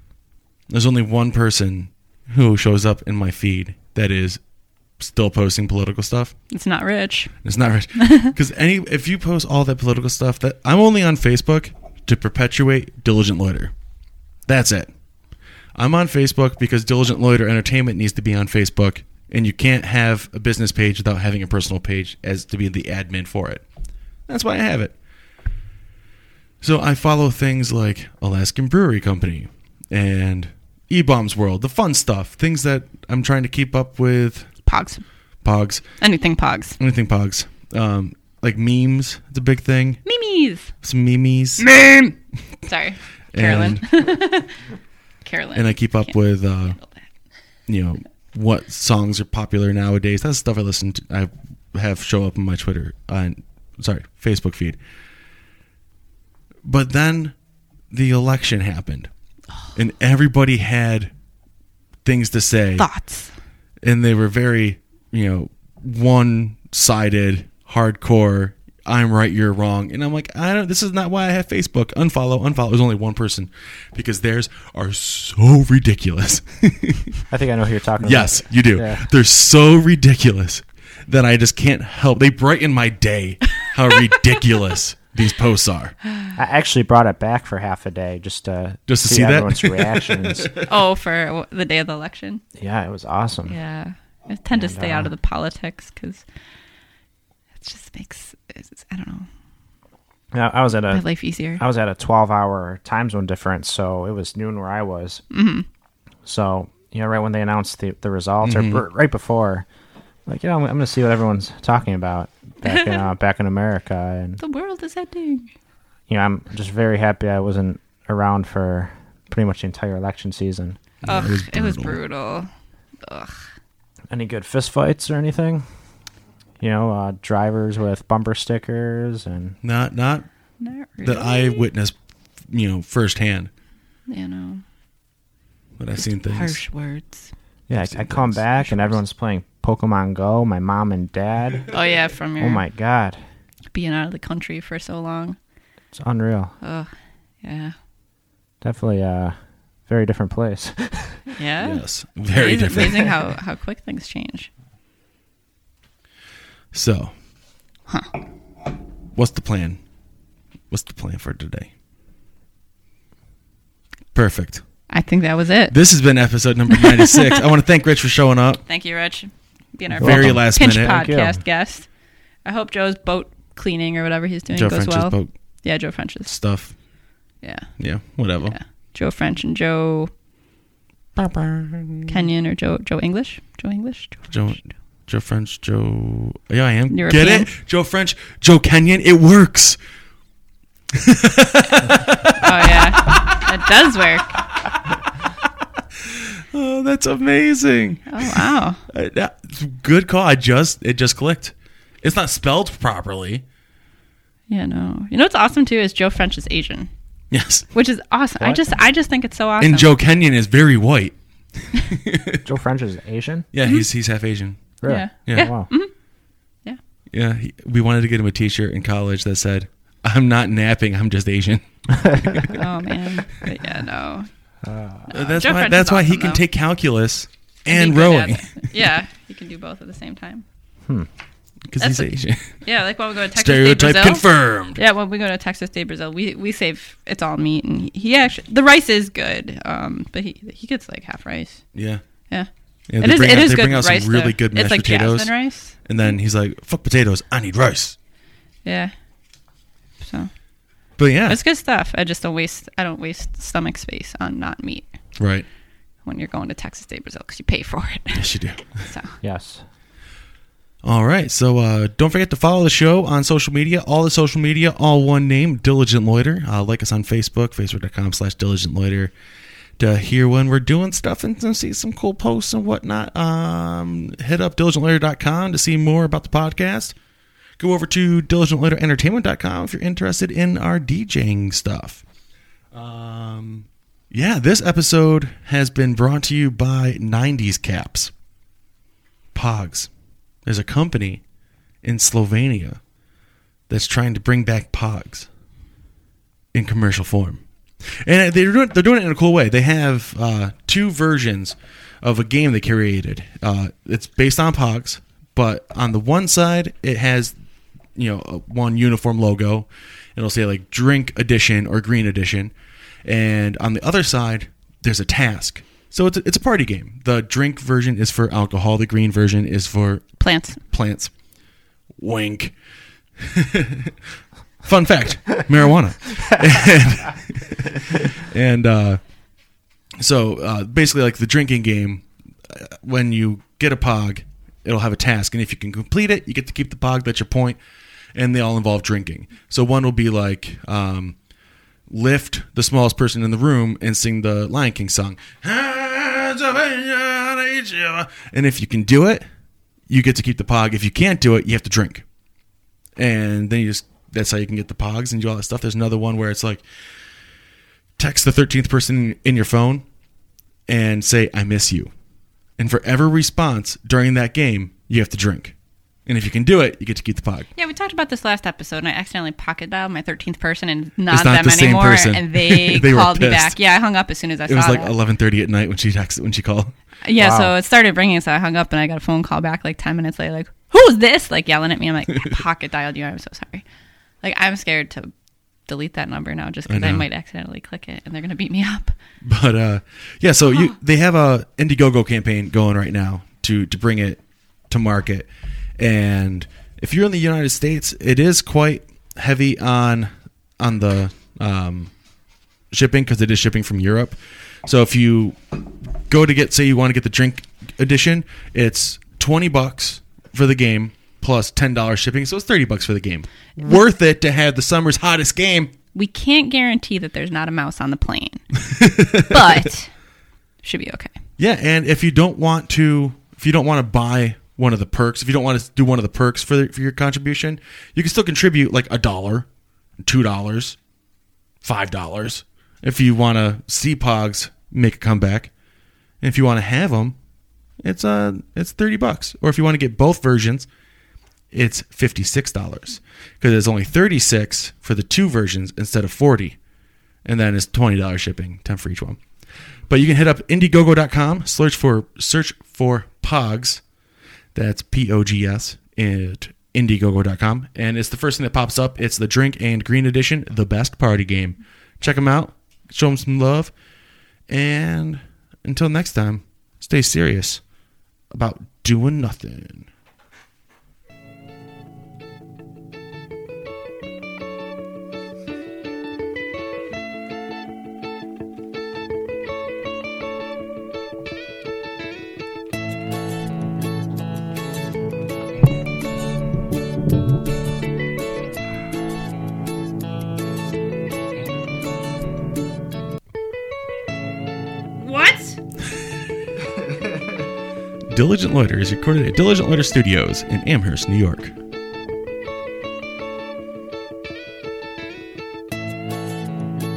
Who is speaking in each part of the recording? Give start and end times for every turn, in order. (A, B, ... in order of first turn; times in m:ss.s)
0:00.7-0:04.4 A
0:05.0-0:06.3 A
0:06.5-0:07.4 B
0:07.4-0:13.7 A
0:08.0-0:08.3 B
0:14.5-0:14.9 A
0:15.8-0:23.6 A
0:24.3-0:24.9 A
0:26.6-0:34.5 A
0:34.6-0:35.0 B
0:35.4-0:35.8 A
0:36.0-0:36.8 B
0:36.8-0:40.0 A
0:40.0-0:40.7 B
0:40.8-0:41.7 A
0:41.6-0:42.1 B
0:42.6-0:44.5 B
0:43.3-0:43.8 A
0:45.2-0:46.9 B
0:45.5-0:46.8 A
0:47.7-0:54.8 A
0:56.6-0:57.3 A
0:57.9-0:59.1 A
0:59.7-1:01.1 A
1:02.0-1:02.9 A
1:02.8-1:03.3 B
1:03.8-1:17.2 A
1:17.3-1:19.0 C
1:18.0-1:26.0 A
1:26.4-1:30.5 C
1:28.9-1:30.6 A
1:30.6-1:32.4 B
1:32.6-1:33.6 C
1:33.5-1:36.2 B
1:34.5-1:35.1 C
1:37.6-1:39.3 B
1:40.3-1:41.0 C
1:40.9-1:41.6 B
1:41.6-1:45.2 C
1:45.3-1:45.6 B
1:46.2-1:49.6 C
1:48.4-1:48.8 A
1:50.2-1:54.4 C
1:54.4-1:55.5 B
1:56.1-2:00.8 C
2:01.0-2:02.0 A
2:01.0-2:02.5 B
2:03.0-2:03.4 B
2:04.1-2:05.6 C
2:06.6-2:09.6 C
2:09.6-2:10.3 A
2:10.6-2:11.6 B
2:11.0-2:11.9 A
2:12.5-2:13.5 A
2:14.1-2:14.6 B
2:15.8-2:16.6 A
2:16.0-2:17.2 B
2:17.7-2:21.7 C
2:17.8-2:18.4 A
2:21.7-2:22.6 B
2:22.4-2:23.2 C
2:23.7-2:25.4 B
2:25.9-2:26.5 C
2:26.6-2:26.9 B
2:27.4-2:27.7 B
2:28.6-2:29.4 C
2:29.9-2:31.2 C
2:31.3-2:34.5 B
2:31.6-2:33.1 A
2:36.7-2:37.1 A
2:39.1-2:39.8 A
2:40.7-2:41.7 A
2:44.1-2:44.6 A
2:44.9-2:45.8 B
2:45.7-2:48.6 A
2:46.8-2:47.3 B
2:48.7-2:51.9 B
2:50.0-2:51.0 A
2:50.0-2:51.4 C
2:52.4-2:56.3 B
2:54.5-2:55.3 A
2:56.2-2:56.7 A
2:57.4-2:57.7 B
2:57.8-2:58.6 A
2:58.4-3:00.1 B
3:01.2-3:02.1 A
3:02.1-3:04.6 B
3:04.3-3:09.8 A
3:06.9-3:07.5 B
3:10.9-3:13.4 A
3:12.4-3:14.4 B
3:16.0-3:23.4 A
3:18.1-3:18.8 B
3:24.5-3:26.9 B
3:27.3-3:27.6 A
3:27.7-3:29.9 B
3:29.6-3:32.4 A
3:32.4-3:33.5 C
3:33.5-3:34.7 A
3:34.8-3:35.7 C
3:34.8-3:35.9 B
3:35.2-3:35.5 A
3:37.1-3:42.6 A
3:42.5-3:44.3 B
3:44.6-3:45.1 C
3:45.1-3:46.4 B
3:45.1-3:48.7 A
3:47.7-3:50.4 B
3:51.7-3:52.5 A
3:51.8-3:52.1 B
3:52.6-4:01.6 B
3:53.3-3:54.8 A
4:01.7-4:02.0 A
4:02.3-4:06.1 B
4:02.9-4:05.3 A
4:05.8-4:07.9 A
4:08.6-4:08.9 B
4:10.0-4:10.3 B
4:11.0-4:11.4 A
4:11.3-4:14.8 B
4:15.2-4:15.4 A
4:16.0-4:18.3 B
4:18.1-4:18.9 A
4:18.9-4:19.1 B
4:19.2-4:19.6 C
4:20.8-4:29.1 A
4:29.8-4:36.9 A
4:37.6-4:42.0 A
4:42.7-4:48.1 A
4:49.3-4:49.9 A
4:50.4-4:51.2 A
4:51.8-4:52.8 A
4:53.7-4:55.3 A
4:56.5-5:07.4 A
5:08.0-5:12.5 A
5:13.0-5:21.1 A
5:20.2-5:20.6 B
5:22.0-5:22.5 A
5:23.2-5:23.9 A
5:24.6-5:29.0 A
5:30.0-5:37.6 A
5:38.1-5:41.2 A
5:41.9-5:49.2 A
5:49.9-5:52.0 A
5:53.0-5:56.6 A
5:58.0-5:59.8 A
6:00.7-6:01.9 A
6:02.6-6:05.5 A
6:06.1-6:07.5 A
6:07.6-6:14.9 B
6:11.1-6:13.5 A
6:14.5-6:16.7 A
6:17.0-6:23.6 B
6:17.2-6:17.5 C
6:24.2-6:25.1 B
6:25.7-6:28.9 B
6:26.7-6:27.0 A
6:29.2-6:41.9 A
6:42.7-6:45.5 A
6:46.0-6:55.7 A
6:55.9-6:58.6 B
6:58.6-6:59.7 A
6:59.1-6:59.9 B
7:00.6-7:01.1 B
7:01.4-7:09.5 A
7:10.0-7:10.8 A
7:11.6-7:15.5 A
7:16.2-7:17.2 A
7:17.8-7:20.7 A
7:21.5-7:26.6 A
7:27.2-7:29.2 A
7:29.9-7:33.8 A
7:34.5-7:43.7 A
7:44.5-7:47.6 A
7:48.3-7:49.9 A
8:15.0-8:15.6 B
8:18.1-8:21.5 A